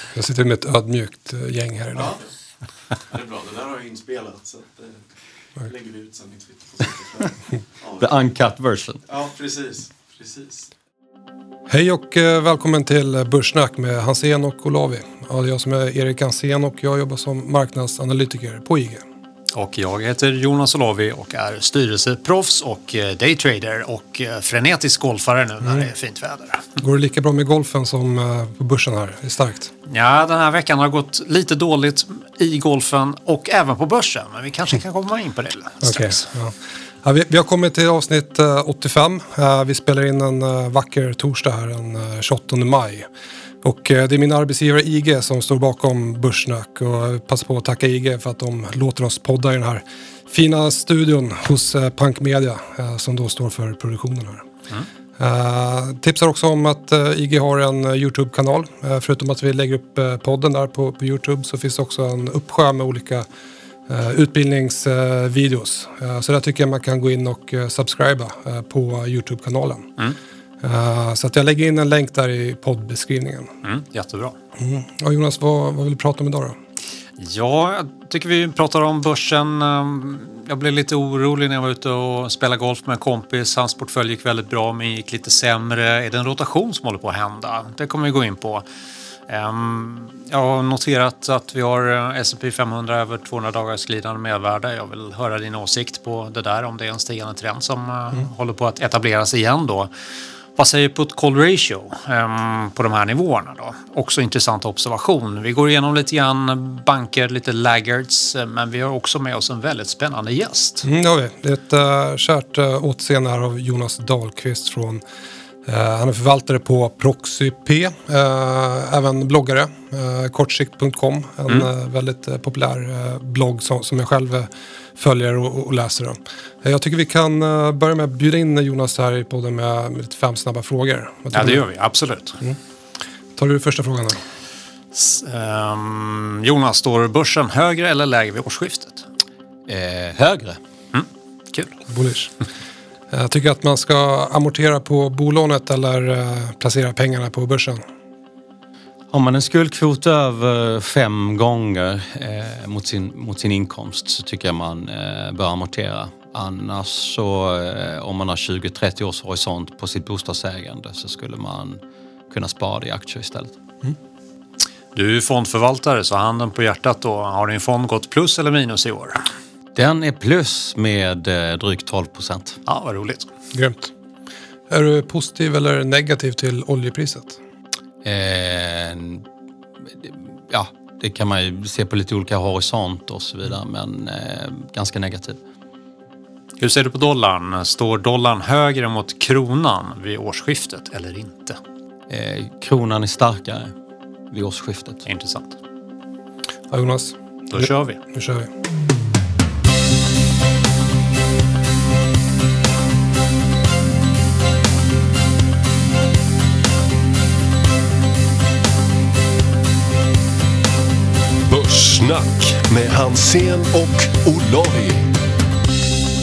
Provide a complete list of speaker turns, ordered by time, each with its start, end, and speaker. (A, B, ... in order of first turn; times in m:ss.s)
0:00.1-0:02.2 A
0:03.1-0:05.1 B
0:05.6-0:08.0 B
0:07.9-0:09.0 C
0:09.1-0:10.7 B
0:11.7-0:19.0 A
0:19.5-0:26.7 D
0:26.8-0:29.7 A
0:29.9-0:36.3 D
0:35.8-0:43.1 A
0:43.6-0:54.4 A
0:55.2-1:03.2 A
1:03.9-1:09.9 A
1:10.6-1:13.5 A
1:13.6-1:14.4 D
1:14.6-1:16.6 A
1:17.2-1:28.6 D
1:29.3-1:39.9 D
1:40.6-1:50.8 D
1:50.8-1:55.0 A
1:55.6-2:11.6 A
2:11.3-2:12.4 D
2:13.4-2:14.2 A
2:14.9-2:19.0 D
2:19.7-2:20.6 C
2:20.9-2:21.8 D
2:21.9-2:22.3 A
2:23.1-2:27.8 A
2:29.1-2:43.6 C
2:44.9-2:49.2 D
2:49.7-2:52.6 C
2:52.7-2:53.3 D
2:53.5-2:53.9 A
2:54.7-2:57.4 A
2:58.0-2:59.2 C
3:00.0-3:05.4 C
3:06.6-3:11.6 D
3:12.1-3:13.7 C
3:14.3-3:15.0 C
3:15.0-3:15.6 D
3:16.7-3:18.5 A
3:17.5-3:18.0 D
3:31.5-3:35.2 E